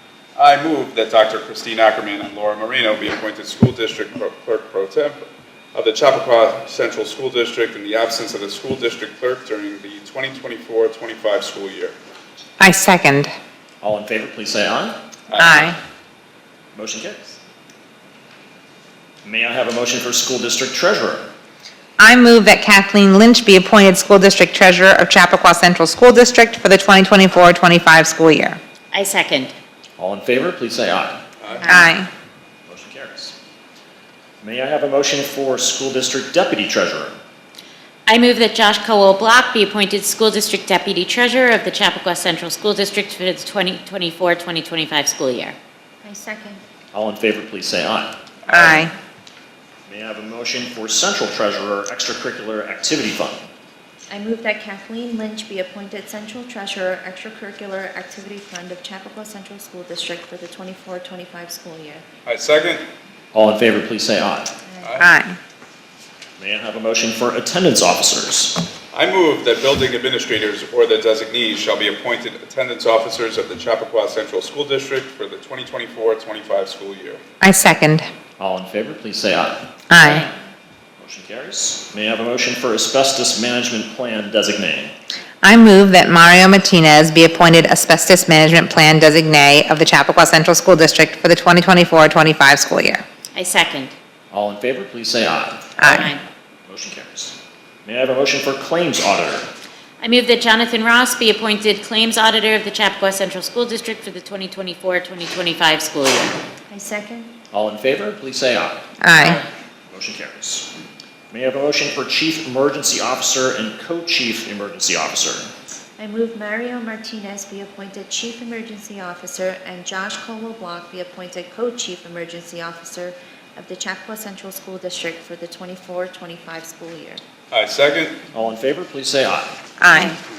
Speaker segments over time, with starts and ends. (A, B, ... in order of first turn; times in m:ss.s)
0:00.4-0:12.0 A
0:12.6-0:13.3 B
0:13.8-0:15.0 C
0:15.3-0:15.7 A
0:15.4-0:15.8 B
0:16.7-0:17.4 C
0:19.2-0:21.3 C
0:22.0-0:28.6 B
0:28.9-0:29.5 D
0:30.0-0:31.2 C
0:31.4-0:31.8 A
0:31.7-0:32.1 B
0:32.7-0:33.4 C
0:34.4-0:37.2 C
0:38.1-0:45.6 D
0:46.0-0:46.6 E
0:46.9-0:48.2 C
0:48.5-0:48.9 B
0:49.9-0:53.5 C
0:54.1-1:02.0 E
1:02.3-1:02.8 A
1:03.3-1:04.5 C
1:04.7-1:05.0 E
1:04.8-1:05.1 A
1:05.0-1:05.4 B
1:06.4-1:08.7 C
1:08.9-1:17.2 A
1:17.4-1:18.1 B
1:18.4-1:19.7 C
1:19.9-1:20.3 B
1:20.0-1:20.3 D
1:21.0-1:24.9 C
1:25.4-1:33.0 B
1:33.4-1:33.9 D
1:34.3-1:35.7 C
1:35.8-1:36.1 B
1:35.8-1:36.2 D
1:36.7-1:39.5 C
1:40.0-1:46.4 D
1:46.7-1:47.3 E
1:47.5-1:48.9 C
1:49.0-1:49.4 B
1:49.9-1:50.7 C
1:51.3-1:55.5 C
1:56.0-2:07.2 E
2:07.5-2:08.2 A
2:08.3-2:09.6 C
2:09.8-2:10.2 B